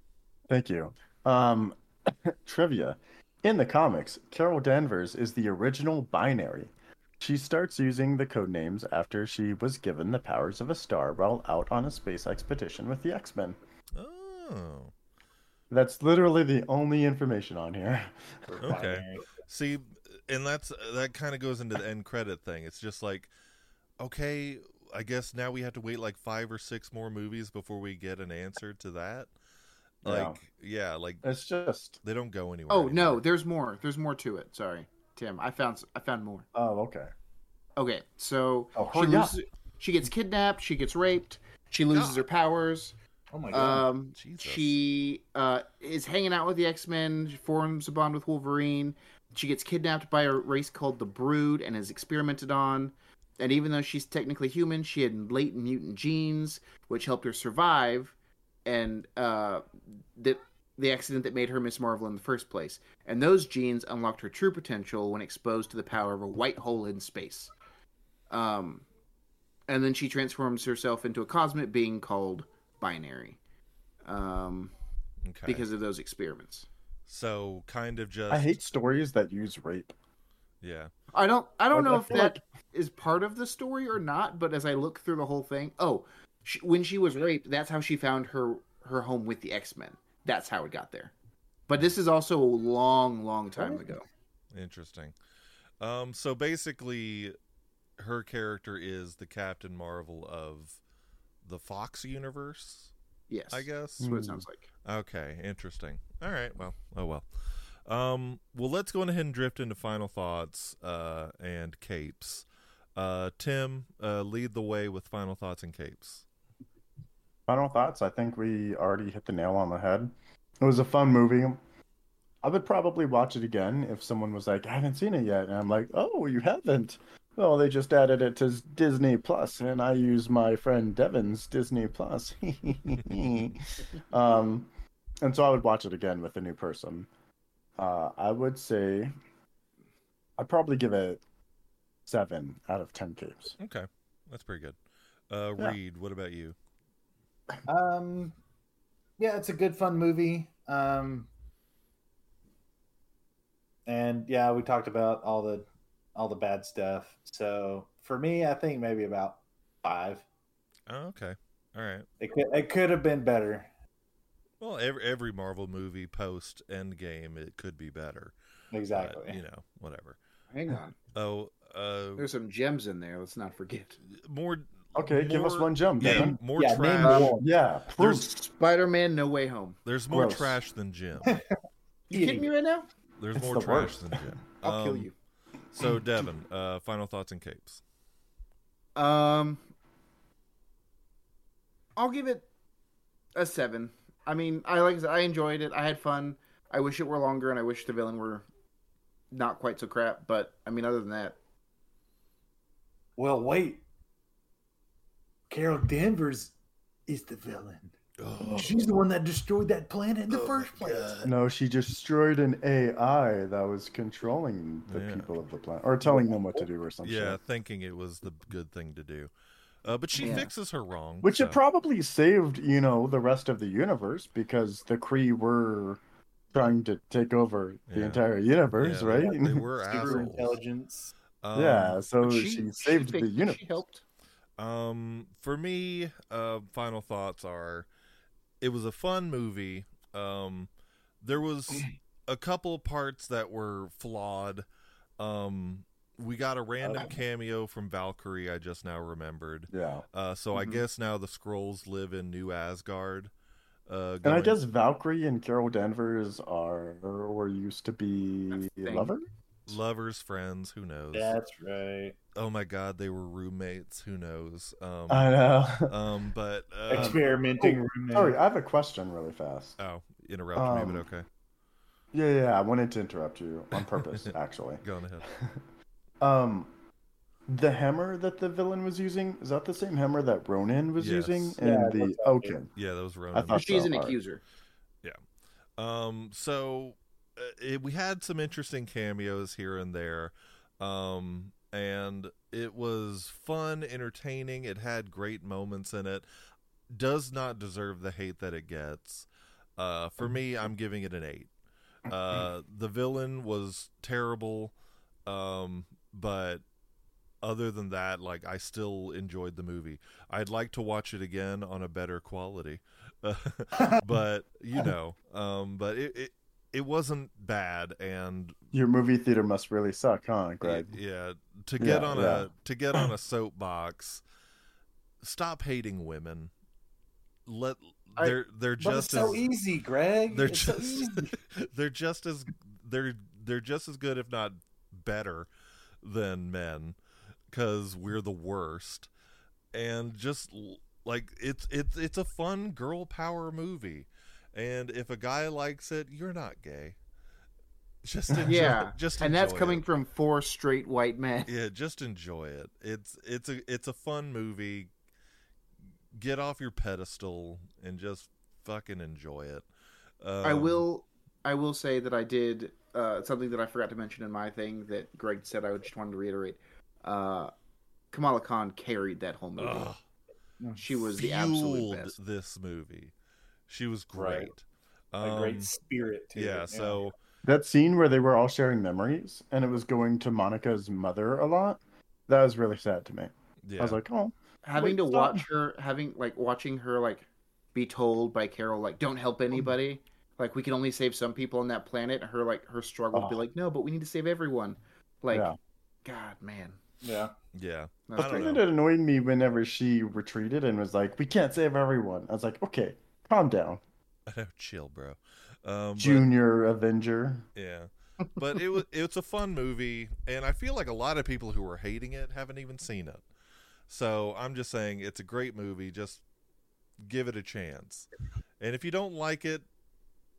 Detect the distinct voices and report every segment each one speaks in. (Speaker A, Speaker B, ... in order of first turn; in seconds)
Speaker A: 0.5-13.6, 15.7-18.6, 30.0-30.4, 31.2-32.0, 36.5-37.1, 38.7-39.4, 78.3-79.9, 81.7-82.4, 104.0-104.4, 117.5-121.6, 122.4-134.7, 135.2-137.1, 137.8-139.1, 140.4-141.2, 142.1-143.5, 174.9-176.4, 177.1-178.3, 180.1-180.6, 183.3-184.2, 211.2-217.4, 221.2-226.0, 226.5-229.6, 231.5-233.7, 249.7-250.0, 254.2-259.2, 265.1-265.9, 266.9-269.8, 270.6-271.1, 272.1-275.6, 276.2-276.7, 277.5-282.7, 283.3-284.2, 318.7-320.9, 321.8-323.1, 377.4-385.4, 393.1-393.4, 395.3-395.6, 398.2-403.8, 406.0-407.4
Speaker B: 13.9-14.9, 18.6-23.3, 24.0-29.3, 30.0-31.3, 32.0-33.2, 41.9-42.2, 44.1-44.8, 75.2-75.7, 77.1-78.6, 80.6-80.9, 94.5-95.1, 95.8-97.3, 98.0-100.8, 101.4-102.9, 103.5-104.1, 104.8-107.2, 107.8-112.4, 113.0-116.2, 143.6-144.8, 145.3-146.6, 160.9-162.1, 164.6-168.3, 168.9-170.2, 171.1-172.3, 174.1-177.3, 179.8-181.4, 183.2-185.1, 185.7-187.8, 208.2-208.9, 210.3-211.3, 214.9-215.3, 217.0-219.3, 219.8-221.6, 227.9-228.2, 228.7-230.6, 231.4-232.0, 234.6-237.9, 238.6-240.7, 241.2-244.7, 245.2-253.3, 253.9-254.6, 259.7-261.4, 262.3-267.3, 269.8-271.2, 274.8-275.2, 281.0-281.6, 282.7-283.9, 285.8-296.2, 296.9-301.5, 302.1-304.7, 305.2-306.6, 307.4-318.5, 320.6-324.2, 325.2-326.5, 327.4-329.5, 330.3-335.5, 336.0-337.0, 337.5-339.1, 339.7-347.0, 348.0-349.8, 351.4-354.9, 356.1-359.6, 360.2-360.8, 369.6-370.0, 371.0-373.1, 373.7-375.7, 376.3-377.1, 383.6-384.0, 397.5-398.6, 404.3-406.3, 407.6-413.2, 413.9-416.2, 417.0-418.1, 418.6-419.6
Speaker C: 18.5-19.3, 43.3-43.8, 93.6-93.8, 147.7-148.3, 149.2-151.3, 153.9-160.2, 162.2-163.7, 168.7-169.4, 176.0-177.5, 182.1-182.5, 203.2-203.8, 205.5-206.5, 207.1-211.3, 216.1-216.6, 229.1-231.1, 246.8-247.1, 261.1-262.2, 266.9-268.4, 281.6-282.6, 328.8-331.3, 374.1-374.5, 375.2-377.0, 397.0-397.3
Speaker D: 32.7-36.5, 37.8-42.9, 43.5-59.6, 60.1-67.5, 68.3-68.8, 69.7-73.4, 74.0-74.7, 75.5-76.7, 81.1-91.1, 91.7-94.0, 103.3-104.7, 170.5-170.9, 172.2-174.0, 177.0-177.3, 178.0-179.8, 182.1-182.9, 184.6-185.1, 188.9-189.6, 192.0-192.4, 193.3-198.4, 199.3-201.4, 220.2-220.5, 232.2-234.0, 250.5-250.8, 258.5-259.1, 283.5-284.4, 348.4-351.5, 360.4-367.5, 368.1-369.9, 370.8-372.1, 384.6-395.5, 396.0-396.8, 398.1-398.6